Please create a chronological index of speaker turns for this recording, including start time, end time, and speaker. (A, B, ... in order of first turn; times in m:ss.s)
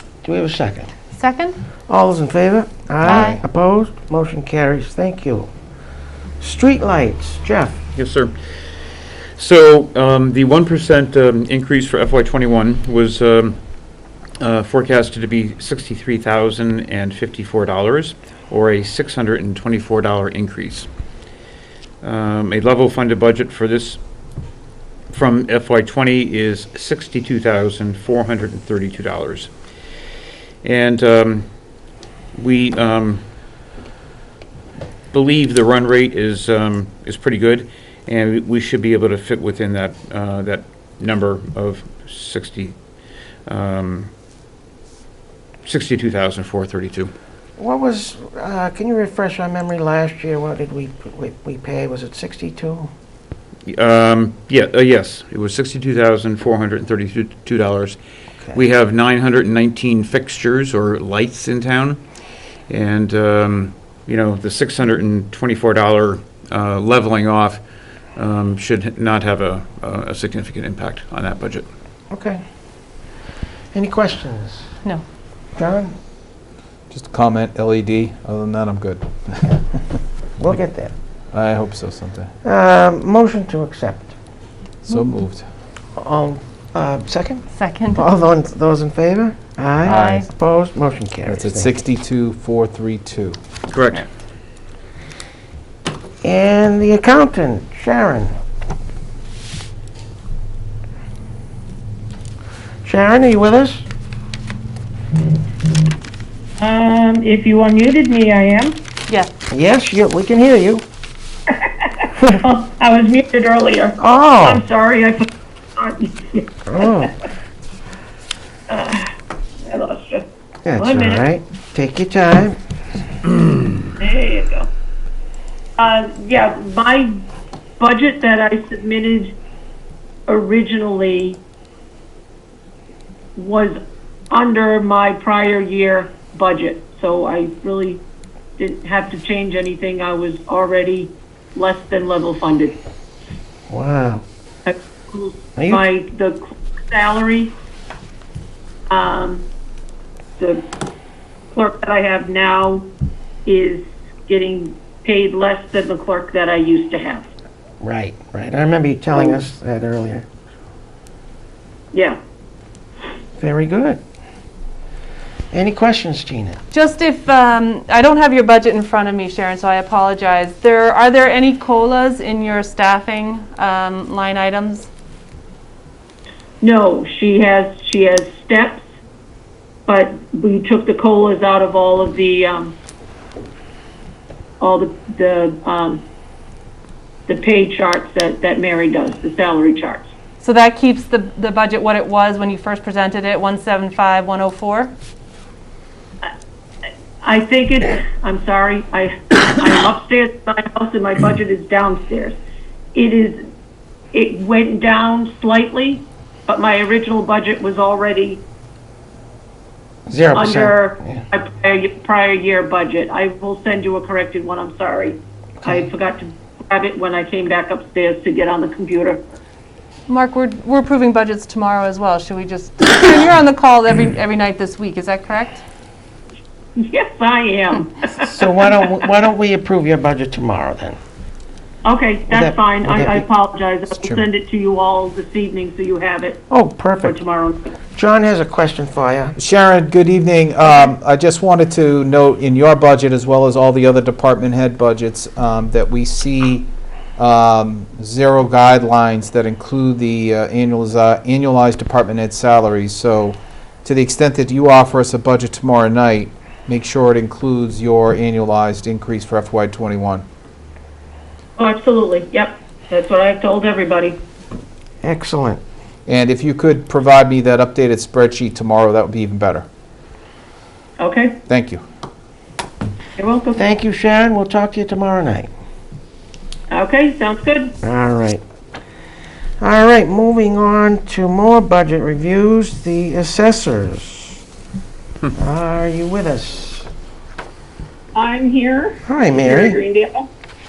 0:00.2-0:00.9 A
0:01.2-0:01.6 B
0:01.9-0:05.5 A
0:03.0-0:03.4 B
0:06.4-0:07.8 A
0:07.9-0:08.3 C
0:09.4-0:13.6 C
0:14.4-0:20.9 C
0:22.0-0:24.0 C
0:25.1-0:29.5 C
0:30.6-0:31.4 C
0:32.3-0:33.2 C
0:35.1-0:42.7 C
0:43.4-0:44.1 C
0:45.6-0:47.1 C
0:47.6-0:52.9 A
0:53.7-0:58.0 C
0:58.5-1:02.0 C
1:02.7-1:07.6 C
1:08.2-1:11.6 C
1:12.1-1:12.4 A
1:13.7-1:14.7 A
1:15.6-1:15.9 A
1:16.9-1:19.8 D
1:20.4-1:20.9 A
1:21.3-1:22.3 D
1:22.4-1:24.1 A
1:24.8-1:25.5 D
1:26.0-1:31.7 A
1:27.6-1:28.0 B
1:29.8-1:30.2 D
1:29.8-1:30.2 B
1:31.3-1:33.4 D
1:33.7-1:34.1 C
1:36.2-1:38.3 A
1:42.8-1:43.8 A
1:46.6-1:48.8 E
1:49.5-1:50.8 A
1:51.8-1:56.6 E
1:54.0-1:54.6 A
1:56.7-1:57.1 A
1:58.7-1:59.1 E
1:59.6-2:00.2 E
2:00.6-2:02.6 A
2:00.8-2:01.2 E
2:04.0-2:04.7 E
2:05.8-2:07.1 E
2:07.8-2:09.4 E
2:10.3-2:11.4 E
2:13.4-2:13.8 E
2:14.3-2:18.0 E
2:18.6-2:22.8 E
2:23.7-2:24.2 A
2:24.6-2:27.5 E
2:25.6-2:25.8 A
2:28.9-2:29.5 E
2:30.4-2:30.6 E
2:31.5-2:32.9 E
2:33.4-2:37.3 E
2:37.8-2:40.3 A
2:39.1-2:39.4 E
2:41.9-2:42.2 E
2:43.4-2:44.0 A
2:45.5-2:46.6 A
2:46.7-2:54.9 B
2:56.6-2:58.8 E
2:59.8-3:02.8 E
3:04.6-3:06.0 E
3:07.3-3:10.0 E
3:10.4-3:14.9 B
3:17.2-3:22.4 E
3:22.9-3:23.4 E
3:24.1-3:28.4 E
3:30.1-3:31.2 A
3:30.3-3:39.2 E
3:40.1-3:45.6 B
3:46.8-3:48.3 E
3:48.2-3:51.0 A
3:51.8-3:56.4 E
3:52.3-3:53.2 A
3:56.5-3:57.2 A
3:57.0-3:57.7 E
3:57.9-3:59.4 A
3:59.4-4:20.2 D
4:21.6-4:24.2 E
4:25.0-4:25.6 A
4:26.0-4:29.7 D
4:31.0-4:31.4 E
4:31.5-4:31.8 D
4:33.2-4:33.6 E
4:33.5-4:35.5 A
4:36.7-4:37.7 E
4:37.8-4:38.4 A
4:39.6-4:44.4 A
4:45.3-4:46.9 A
4:48.1-4:50.3 E
4:49.0-4:49.8 A